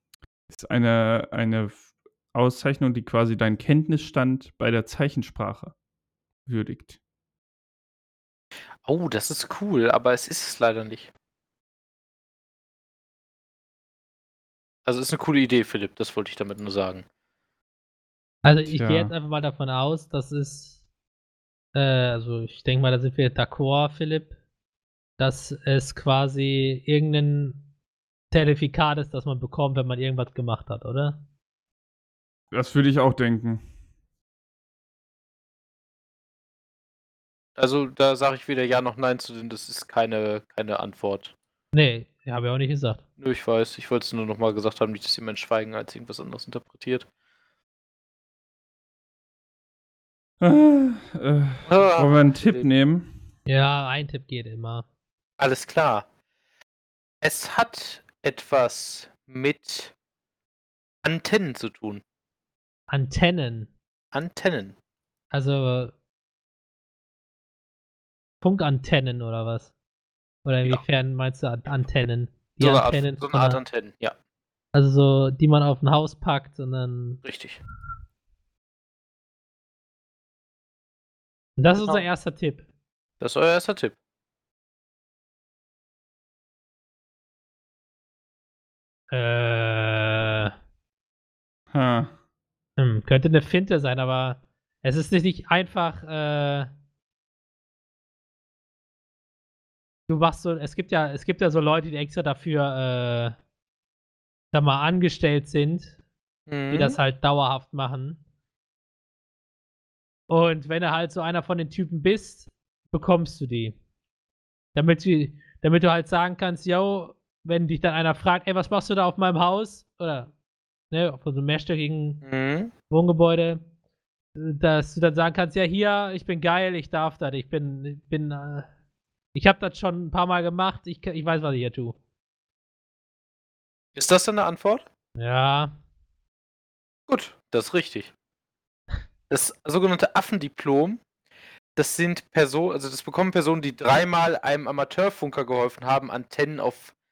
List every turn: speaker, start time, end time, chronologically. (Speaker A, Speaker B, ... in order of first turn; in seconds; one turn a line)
Speaker A: 0.5-5.7
Speaker A: 6.5-7.0
Speaker B: 8.8-11.1
Speaker B: 14.8-17.0
Speaker C: 18.4-20.8
Speaker A: 18.7-19.1
Speaker C: 21.7-24.3
Speaker C: 25.2-27.6
Speaker C: 28.3-31.2
Speaker A: 32.5-33.6
Speaker B: 37.5-41.3
Speaker C: 41.7-43.0
Speaker B: 43.2-47.0
Speaker A: 50.4-53.1
Speaker B: 51.6-52.6
Speaker C: 53.5-54.8
Speaker B: 55.4-56.0
Speaker B: 57.2-59.9
Speaker B: 61.0-62.0
Speaker C: 62.9-63.7
Speaker B: 64.1-64.7
Speaker C: 65.3-65.9
Speaker C: 68.4-69.7
Speaker C: 70.4-73.6
Speaker B: 72.6-74.1
Speaker C: 74.7-77.2
Speaker B: 77.2-77.6
Speaker C: 81.6-82.6
Speaker B: 81.8-82.0
Speaker B: 83.2-83.9
Speaker C: 89.1-90.5
Speaker A: 91.7-92.1
Speaker C: 92.8-96.7
Speaker C: 100.1-103.3
Speaker C: 104.5-106.0
Speaker B: 106.5-107.0
Speaker C: 106.7-108.2
Speaker C: 110.3-113.8
Speaker C: 114.7-120.3
Speaker C: 120.9-122.2
Speaker B: 122.2-122.7
Speaker C: 122.9-123.6
Speaker C: 124.3-128.7
Speaker C: 129.3-131.9
Speaker B: 133.9-134.8
Speaker C: 135.2-135.7
Speaker B: 137.1-138.1
Speaker B: 139.3-141.0
Speaker B: 141.8-146.9